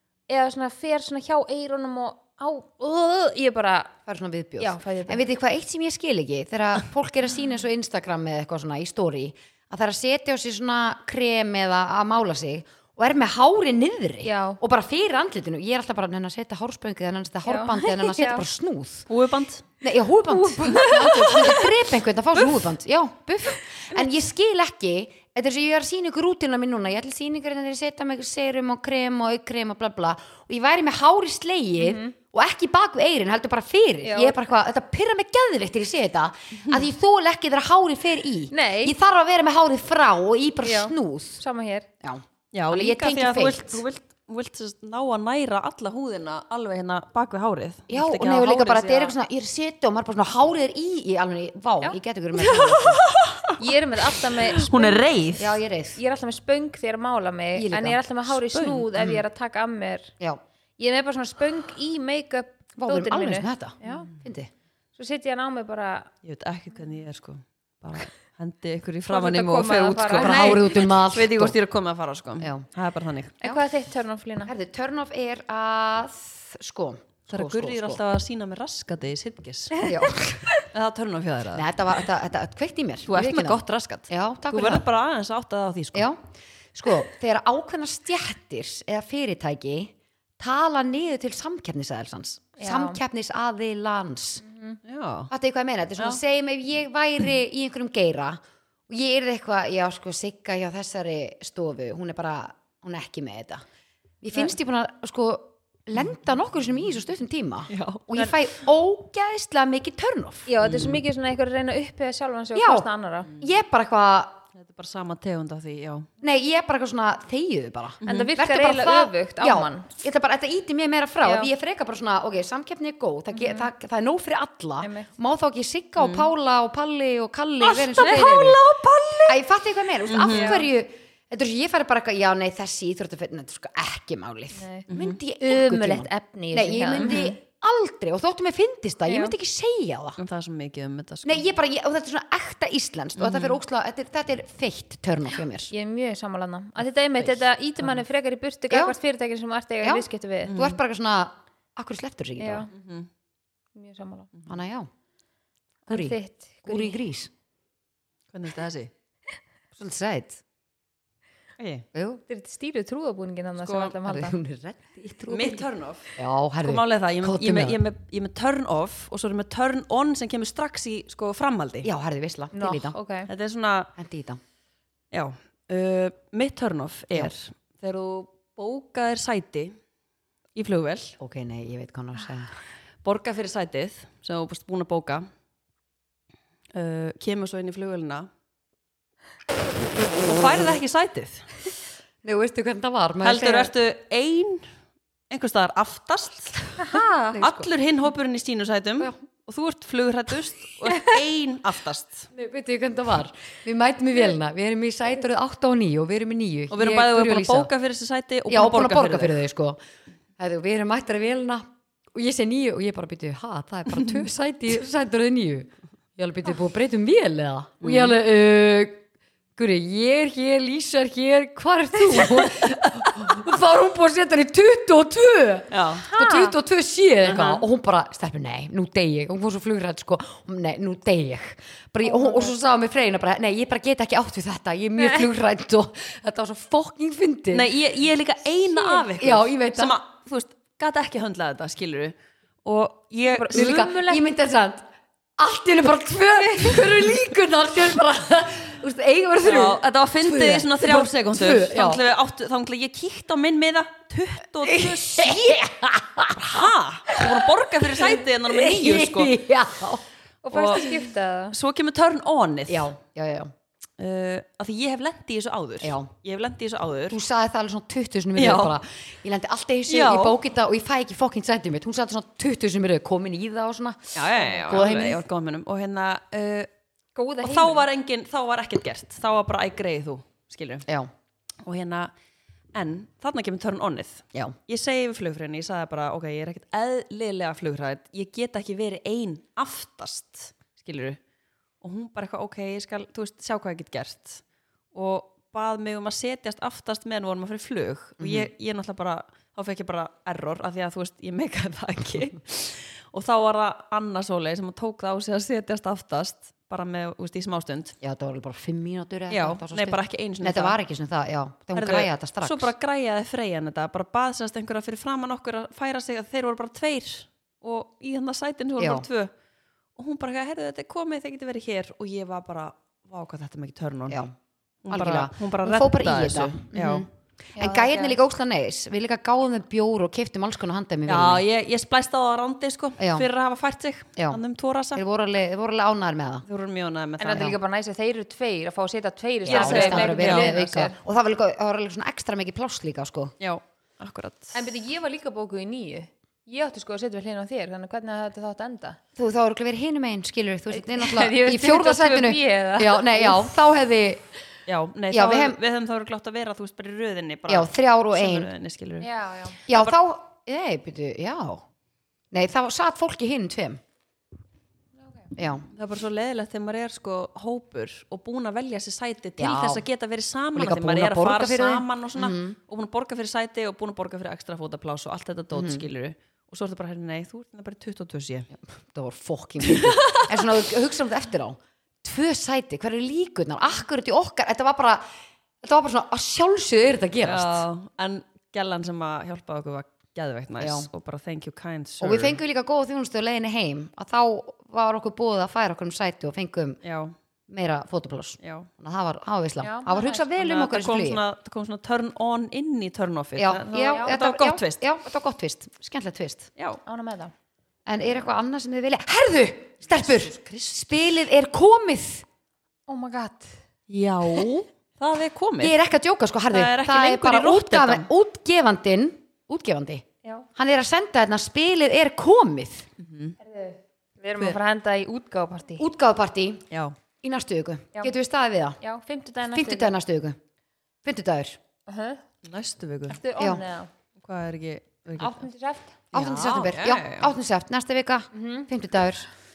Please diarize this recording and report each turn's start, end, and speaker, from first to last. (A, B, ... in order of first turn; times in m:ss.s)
0:00.3-0:03.9 A
0:04.1-0:19.1 B
0:04.6-0:05.2 A
0:14.2-0:14.6 A
0:17.5-0:18.5 A
0:19.1-0:19.6 C
0:19.8-0:41.4 B
0:20.3-0:21.3 A
0:20.7-0:21.7 C
0:31.8-0:32.2 A
0:34.0-0:34.4 A
0:38.5-0:39.0 A
0:40.6-0:41.9 A
0:42.0-0:43.8 B
0:42.5-0:49.1 C
0:47.9-0:53.0 B
0:52.4-0:53.6 C
0:53.6-0:55.1 A
0:54.3-0:55.6 C
0:55.4-0:56.0 B
0:55.9-1:00.1 A
0:57.6-0:58.0 B
0:58.3-0:58.9 C
0:59.0-0:59.2 B
1:00.8-1:04.1 A
1:02.8-1:04.5 B
1:05.0-1:06.1 A
1:06.2-1:13.4 C
1:09.1-1:10.7 A
1:10.2-1:11.6 B
1:12.4-1:12.7 B
1:13.4-1:14.5 A
1:14.4-1:18.0 B
1:17.3-1:19.9 C
1:19.8-1:20.5 B
1:20.6-1:21.7 C
1:21.6-1:24.9 B
1:23.1-1:26.1 C
1:26.0-1:34.4 B
1:32.6-1:33.0 A
1:34.4-1:34.8 A
1:34.9-1:35.3 C
1:35.3-1:43.6 B
1:44.2-1:50.5 B
1:47.7-1:48.1 C
1:50.5-1:53.3 A
1:50.6-1:51.0 C
1:52.6-1:52.9 B
1:53.3-1:53.5 C
1:53.4-1:54.4 B
1:54.6-1:56.1 C
1:56.2-2:08.6 B
1:58.0-1:58.3 C
1:58.0-1:59.9 A
2:01.2-2:01.5 A
2:03.3-2:03.7 A
2:04.8-2:05.1 A
2:06.0-2:06.3 C
2:07.6-2:09.4 C
2:08.0-2:08.3 A
2:09.3-2:20.2 B
2:10.1-2:10.6 C
2:10.3-2:10.6 A
2:14.5-2:14.9 A
2:14.9-2:15.2 C
2:15.4-2:17.4 A
2:17.0-2:17.3 C
2:19.1-2:19.4 A
2:20.2-2:21.5 C
2:21.2-2:25.7 B
2:23.2-2:23.6 C
2:25.7-2:30.5 A
2:28.7-2:29.0 B
2:29.8-2:32.7 B
2:30.4-2:30.8 C
2:32.4-2:32.7 A
2:32.7-2:33.1 C
2:33.8-2:34.3 A
2:34.5-2:34.9 B
2:35.9-2:37.0 A
2:35.9-2:37.3 B
2:38.3-2:38.9 C
2:39.7-2:40.4 B
2:41.6-2:41.9 C
2:41.9-2:42.2 B
2:42.3-2:44.4 A
2:43.6-2:44.0 C
2:44.0-2:47.8 B
2:45.3-2:51.9 C
2:51.8-2:53.0 B
2:52.5-2:53.3 A
2:53.3-2:53.9 C
2:54.0-2:54.4 B
2:55.1-2:59.8 C
3:00.6-3:01.2 C
3:01.2-3:02.5 B
3:03.0-3:05.3 C
3:06.7-3:08.3 C
3:10.2-3:11.5 C
3:12.2-3:13.7 B
3:13.2-3:14.7 C
3:15.3-3:22.3 C
3:16.8-3:17.3 A
3:17.3-3:17.7 B
3:22.3-3:27.7 B
3:26.7-3:29.4 C
3:28.5-3:29.8 B
3:30.4-3:39.0 B
3:37.8-3:38.2 C
3:39.6-3:57.7 B
3:45.7-3:46.1 C
3:46.1-3:46.6 A
3:47.2-3:47.6 C
3:52.0-3:52.5 A
3:55.0-3:55.2 A
3:57.5-4:02.1 C
3:58.7-3:59.1 A
3:59.2-4:00.0 B
4:02.6-4:04.1 C
4:03.3-4:04.2 A
4:03.5-4:04.9 B
4:05.4-4:12.1 B
4:06.5-4:06.8 A
4:09.4-4:15.4 C
4:14.6-4:20.0 B
4:16.4-4:19.4 C
4:20.4-4:21.6 A
4:20.5-4:20.9 C
4:21.5-4:22.9 C
4:22.7-4:23.5 B
4:24.0-4:27.2 C
4:25.8-4:26.1 B
4:27.1-4:35.2 B
4:28.4-4:28.8 C
4:29.9-4:30.4 C
4:34.2-4:36.7 C
4:37.2-4:37.9 A
4:37.4-4:40.9 C
4:41.6-4:42.1 C
4:42.7-4:51.2 C
4:51.8-4:54.4 C
4:54.9-5:08.0 C
4:58.2-4:58.5 B
5:08.0-5:12.7 B
5:09.3-5:10.8 C
5:11.8-5:19.3 C
5:18.8-5:19.1 B
5:20.0-5:24.2 C
5:24.1-5:24.3 B
5:24.8-5:27.1 C
5:24.9-5:31.4 B
5:27.6-5:28.2 A
5:31.1-5:35.0 C
5:33.0-5:33.3 B
5:35.0-5:36.5 B
5:36.5-5:37.5 C
5:37.2-5:41.0 A
5:37.3-5:37.6 B
5:39.5-5:40.7 C
5:39.5-5:43.3 B
5:43.4-5:44.5 C
5:44.5-5:49.0 A
5:49.2-5:54.2 B
5:50.7-5:53.5 A
5:54.7-5:59.1 C
5:55.1-5:55.6 B
5:57.5-5:58.5 B
5:59.0-5:59.6 A
5:59.7-6:00.0 C
5:59.7-6:01.6 B
6:02.3-6:03.8 B
6:05.0-6:05.3 A
6:05.4-6:05.7 B
6:05.7-6:18.5 C
6:09.4-6:09.8 B
6:10.6-6:12.6 B
6:15.5-6:15.8 B
6:18.5-6:25.0 B
6:19.6-6:20.5 C
6:25.6-6:27.7 B
6:27.2-6:32.4 C
6:30.6-6:30.9 B
6:32.0-6:36.8 B
6:36.8-6:37.2 C
6:37.5-6:41.2 B
6:38.4-6:38.7 C
6:39.6-6:40.3 A
6:40.4-6:44.8 C
6:43.4-6:46.5 B
6:43.7-6:44.2 A
6:46.8-6:47.3 A
6:47.9-6:52.2 B
6:49.9-6:50.9 C
6:52.9-6:53.6 A
6:53.9-6:55.8 C
6:55.6-7:00.0 B
6:56.5-6:58.1 C
7:00.6-7:02.9 B
7:03.0-7:03.4 C
7:03.4-7:05.8 A
7:05.8-7:06.7 B
7:07.2-7:08.8 B
7:08.8-7:10.0 A
7:09.5-7:10.4 B
7:11.0-7:11.6 B
7:11.9-7:12.2 A
7:12.4-7:13.2 C
7:13.1-7:13.9 A
7:13.4-7:13.6 B
7:14.2-7:15.5 C
7:15.2-7:16.0 A
7:16.1-7:17.3 C
7:16.1-7:19.3 B
7:18.3-7:18.7 A